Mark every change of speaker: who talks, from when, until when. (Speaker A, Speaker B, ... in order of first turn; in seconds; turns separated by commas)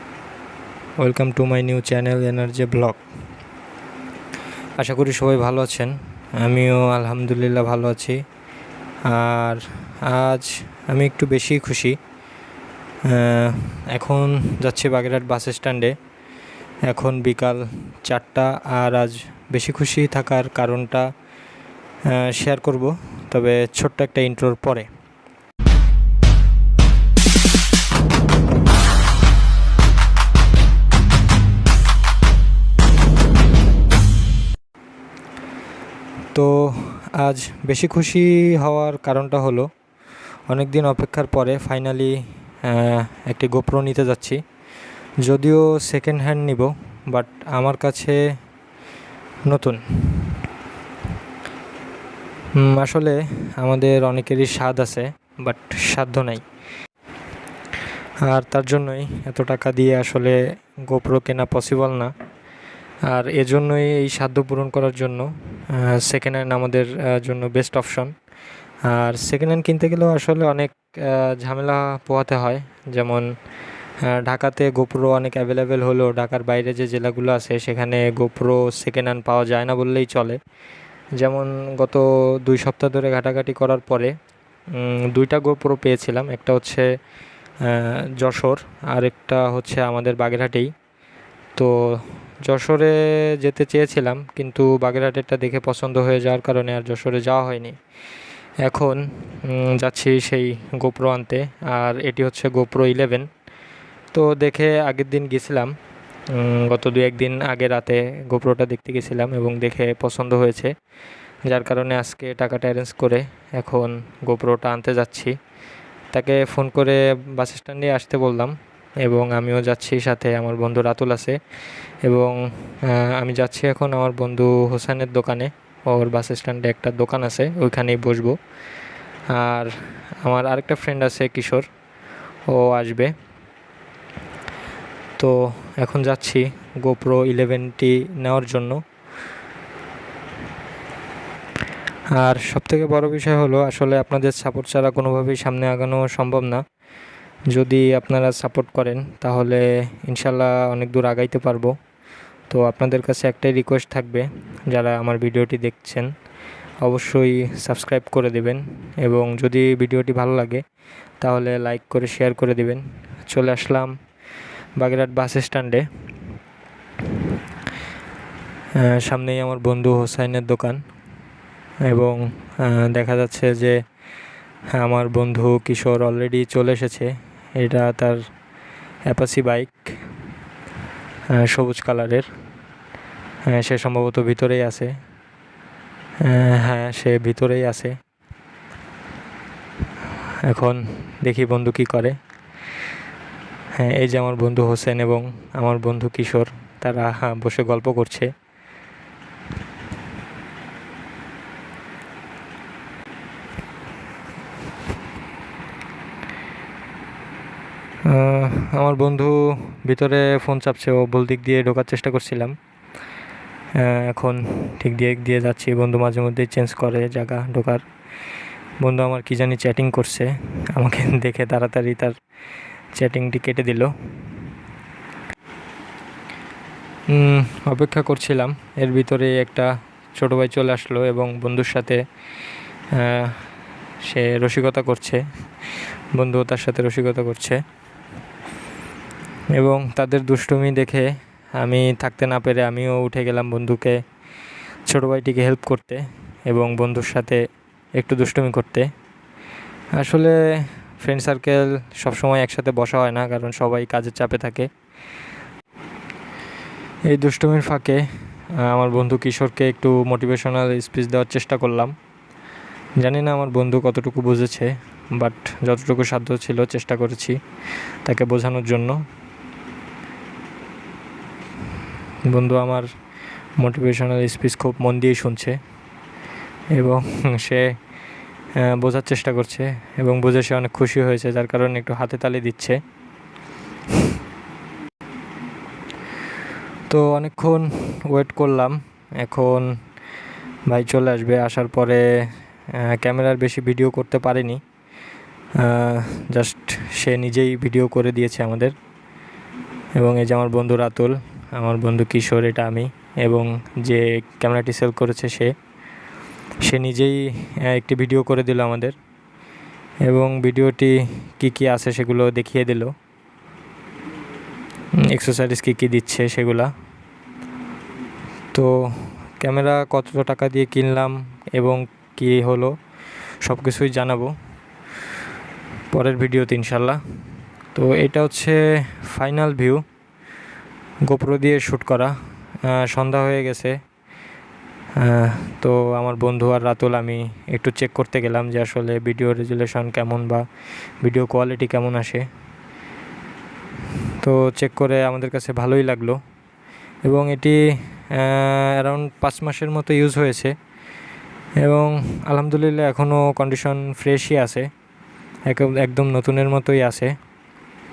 Speaker A: 1.0-3.0, Speaker A: 4.8-8.2, Speaker A: 9.1-12.0, Speaker A: 13.0-15.9, Speaker A: 16.9-21.1, Speaker A: 22.1-24.9, Speaker A: 36.3-39.7, Speaker A: 40.5-44.4, Speaker A: 45.2-48.2, Speaker A: 49.5-50.3, Speaker A: 52.5-56.4, Speaker A: 58.2-62.1, Speaker A: 63.1-68.1, Speaker A: 68.9-73.3, Speaker A: 74.0-80.4, Speaker A: 81.2-84.1, Speaker A: 84.7-86.9, Speaker A: 87.6-90.7, Speaker A: 91.5-97.8, Speaker A: 98.6-103.3, Speaker A: 104.1-105.7, Speaker A: 106.3-110.7, Speaker A: 111.5-115.3, Speaker A: 116.1-121.4, Speaker A: 122.0-128.3, Speaker A: 129.3-129.7, Speaker A: 130.2-131.6, Speaker A: 132.5-133.1, Speaker A: 135.2-138.8, Speaker A: 142.2-146.6, Speaker A: 147.5-151.7, Speaker A: 152.5-156.1, Speaker A: 156.8-160.6, Speaker A: 161.2-163.9, Speaker A: 164.8-165.9, Speaker A: 168.8-170.8, Speaker A: 171.8-173.8, Speaker A: 174.7-178.2, Speaker A: 179.1-179.9, Speaker A: 181.3-182.3, Speaker A: 183.4-184.9, Speaker A: 186.2-188.0, Speaker A: 190.4-192.2, Speaker A: 193.7-198.3, Speaker A: 208.1-212.5, Speaker A: 213.8-217.8, Speaker A: 218.8-222.2, Speaker A: 222.9-223.9, Speaker A: 227.1-232.0, Speaker A: 232.9-233.4, Speaker A: 234.0-235.2, Speaker A: 236.2-237.6, Speaker A: 239.5-244.0, Speaker A: 244.9-247.4, Speaker A: 247.9-248.9, Speaker A: 250.0-254.7, Speaker A: 257.1-258.1, Speaker A: 258.6-261.9, Speaker A: 263.0-267.4, Speaker A: 268.0-269.0, Speaker A: 272.3-272.9, Speaker A: 273.6-275.6, Speaker A: 276.7-277.8, Speaker A: 278.6-282.8, Speaker A: 286.9-289.8, Speaker A: 290.7-294.6, Speaker A: 295.6-298.7, Speaker A: 299.9-305.5, Speaker A: 306.6-308.9, Speaker A: 310.1-312.9, Speaker A: 315.0-316.7, Speaker A: 318.5-322.7, Speaker A: 323.4-324.3, Speaker A: 325.9-327.0, Speaker A: 327.7-329.8, Speaker A: 331.1-333.8, Speaker A: 335.0-340.4, Speaker A: 341.0-342.3, Speaker A: 344.2-346.2, Speaker A: 347.0-350.5, Speaker A: 351.6-354.7, Speaker A: 355.5-357.1